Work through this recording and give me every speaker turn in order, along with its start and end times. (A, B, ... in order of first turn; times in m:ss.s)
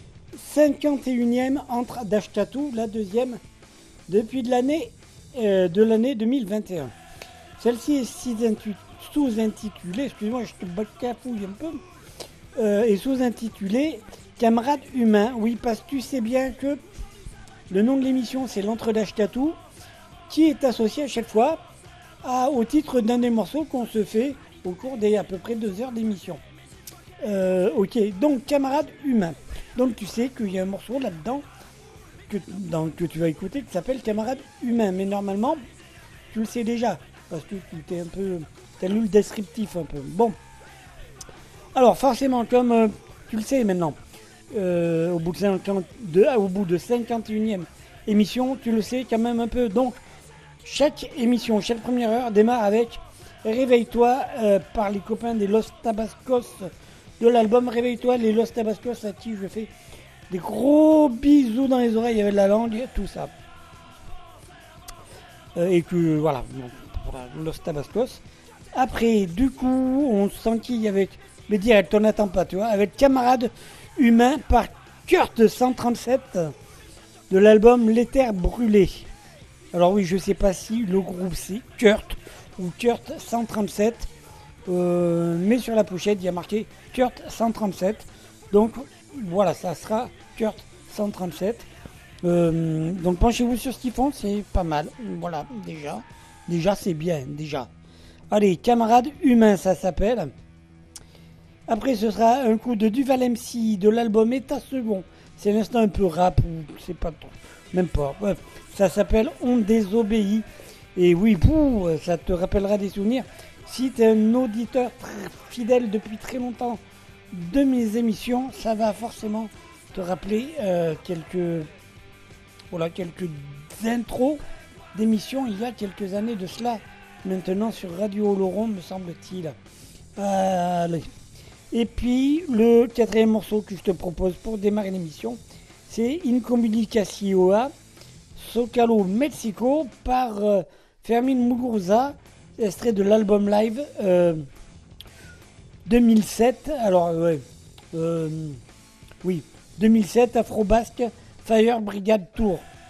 0:00.4-0:03.4 A
0:04.1-0:06.9 A
0:07.6-0:11.8 A
0:12.6-0:16.8 A
0:17.7-0:19.6 A
0:20.3-0:21.6 A
0:22.2-0:26.4 A
0:27.2-0:31.4 A
0:32.3-0:35.6 A
0:36.3-0:40.4 A
0:41.8-0:44.0 A
0:44.5-0:50.0 A
0:50.6-0:56.7 A
0:57.2-0:59.7 A
1:00.3-1:03.3 A
1:05.6-1:08.2 A
1:08.7-1:16.5 A
1:17.3-1:19.1 A
1:19.7-1:24.1 A
1:24.7-1:31.7 A
1:32.2-1:37.7 A
1:38.3-1:40.3 A
1:41.7-1:56.8 A
1:57.3-2:01.7 A
2:02.7-2:04.4 A
2:04.9-2:09.6 A
2:10.2-2:11.1 A
2:11.7-2:17.7 A
2:18.4-2:24.4 A
2:25.9-2:28.6 A
2:29.2-2:32.7 A